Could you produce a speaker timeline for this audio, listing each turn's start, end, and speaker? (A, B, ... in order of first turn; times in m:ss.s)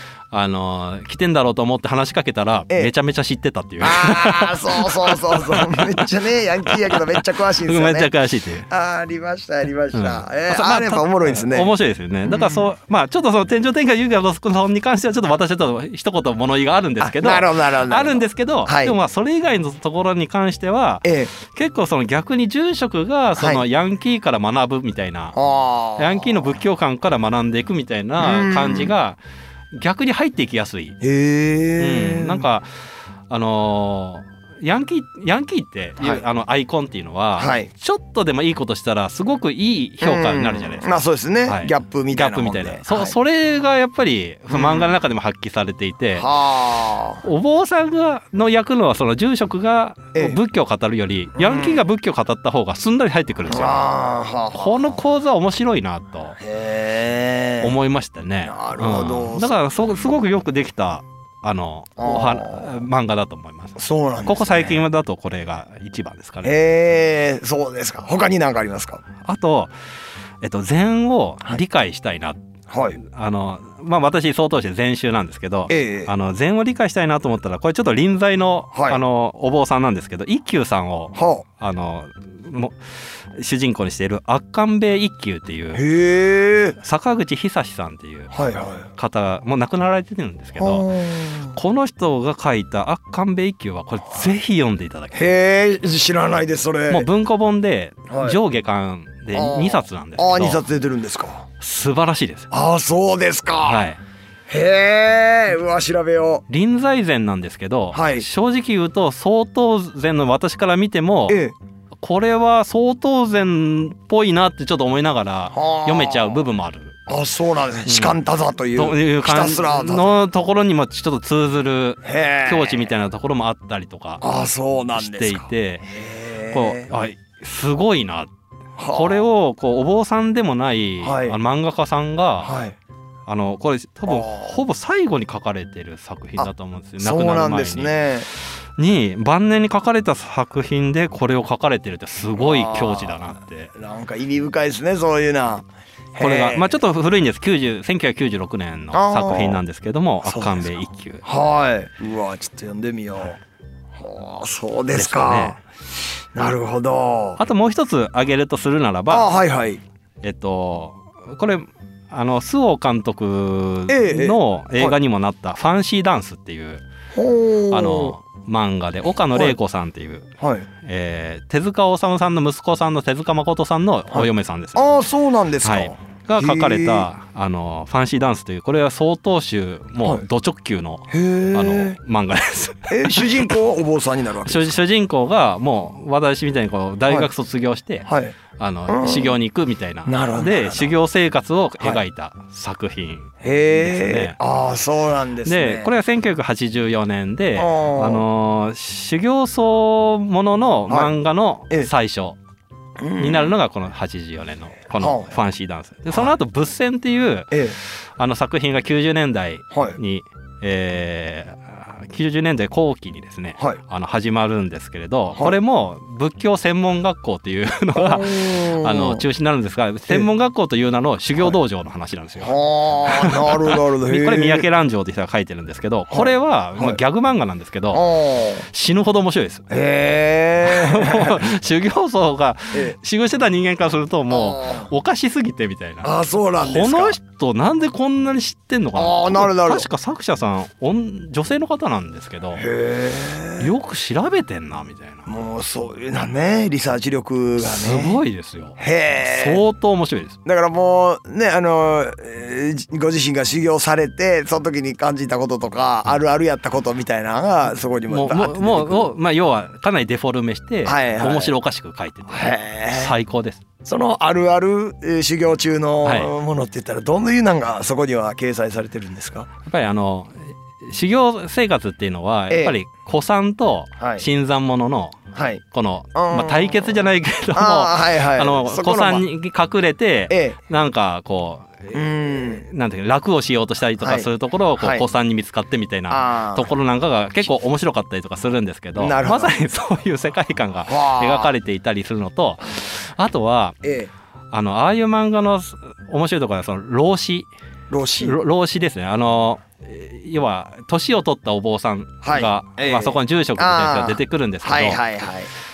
0:00.3-0:06.0 A
0:03.8-0:08.1 B
0:06.6-0:08.7 A
0:08.7-0:11.7 B
0:09.9-0:25.4 A
0:12.2-0:12.7 B
0:17.0-0:18.9 B
0:21.0-0:21.3 B
0:23.4-0:23.6 B
0:25.3-0:26.5 B
0:26.0-0:29.2 A
0:28.2-0:28.9 B
0:29.7-0:31.0 A
0:31.0-0:32.4 B
0:31.8-0:32.7 A
0:33.3-0:40.9 A
0:37.4-0:37.7 B
0:40.0-0:43.2 B
0:41.5-0:46.3 A
0:44.5-0:44.9 B
0:46.2-0:47.2 B
0:47.2-0:53.9 A
0:51.4-0:51.8 B
0:53.5-0:55.0 B
0:54.5-0:56.4 A
0:56.4-0:57.7 B
0:57.6-1:06.5 A
0:58.4-0:59.5 B
1:02.0-1:02.7 B
1:03.8-1:04.8 B
1:06.4-1:09.0 B
1:09.2-1:09.7 A
1:10.4-1:12.4 A
1:12.7-1:13.0 B
1:13.0-1:22.8 A
1:15.7-1:16.1 B
1:18.7-1:19.0 B
1:21.2-1:21.4 B
1:23.3-1:25.8 A
1:25.7-1:26.8 B
1:26.8-1:28.3 A
1:28.3-1:28.9 B
1:28.9-1:30.9 A
1:30.6-1:31.6 B
1:31.5-1:35.2 A
1:35.1-1:37.1 B
1:36.9-1:40.6 A
1:38.1-1:38.4 B
1:39.3-1:41.5 B
1:41.6-1:42.5 A
1:42.5-1:43.8 B
1:43.6-1:44.0 A
1:44.5-1:46.4 B
1:46.5-1:51.4 A
1:47.9-1:48.3 B
1:51.3-1:51.5 B
1:52.0-1:57.0 A
1:55.5-1:56.4 B
1:57.1-2:00.1 B
1:57.8-1:58.2 A
1:58.7-2:04.2 A
2:02.0-2:02.9 B
2:04.2-2:06.9 B
2:05.0-2:05.9 A
2:06.5-2:08.3 A
2:08.8-2:09.2 B
2:08.9-2:12.6 A
2:11.0-2:11.4 B
2:12.4-2:12.8 B
2:13.3-2:23.7 A
2:14.1-2:14.5 B
2:17.0-2:18.3 B
2:22.4-2:26.7 B
2:26.2-2:31.2 A
2:28.9-2:29.6 B
2:30.2-2:30.7 B
2:31.2-2:33.4 B
2:34.0-2:35.6 B
2:34.9-2:35.6 A
2:36.3-2:37.4 B
2:37.4-2:39.3 A
2:39.1-2:39.8 B
2:40.2-2:46.8 A
2:43.9-2:44.9 B
2:47.1-2:48.1 B
2:47.7-2:55.0 A
2:50.4-2:50.7 B
2:54.1-2:57.1 B
2:55.6-3:03.5 A
3:01.1-3:02.0 B
3:02.9-3:04.7 B
3:04.4-3:14.4 A
3:08.0-3:08.4 B
3:08.9-3:09.4 B
3:10.0-3:10.9 B
3:13.4-3:15.9 B
3:15.4-3:22.4 A
3:17.6-3:18.2 B
3:23.0-3:23.5 B
3:23.2-3:42.5 A
3:25.0-3:25.3 B
3:29.7-3:30.0 B
3:38.0-3:39.2 B
3:42.4-3:44.6 B
3:43.0-3:48.1 A
3:46.1-3:47.0 B
3:47.9-3:48.6 B
3:48.7-3:49.7 A
3:49.7-3:51.5 B
3:50.6-3:56.1 A
3:54.3-3:54.9 B
3:56.0-3:57.2 B
3:56.6-4:02.6 A
3:59.0-3:59.9 B
4:02.6-4:03.7 B
4:03.6-4:05.3 A
4:05.2-4:08.2 B
4:07.6-4:10.4 A
4:08.8-4:09.6 B
4:10.4-4:19.1 B
4:18.1-4:23.6 A
4:20.8-4:21.5 B
4:22.3-4:23.1 B
4:23.8-4:29.5 B
4:26.0-4:26.3 A
4:29.6-4:35.2 A
4:32.5-4:32.7 B
4:34.0-4:34.2 B
4:35.3-4:35.6 B
4:35.7-4:53.8 A
4:36.1-4:37.0 B
4:37.5-4:39.2 B
4:40.3-4:40.6 B
4:41.9-4:42.6 B
4:44.0-4:45.0 B
4:46.1-4:46.7 B
4:49.0-4:49.5 B
4:50.8-4:51.5 B
4:53.8-4:54.1 B
4:54.5-4:57.5 A
4:57.9-4:58.4 B
4:58.2-5:05.0 A
5:02.2-5:05.5 B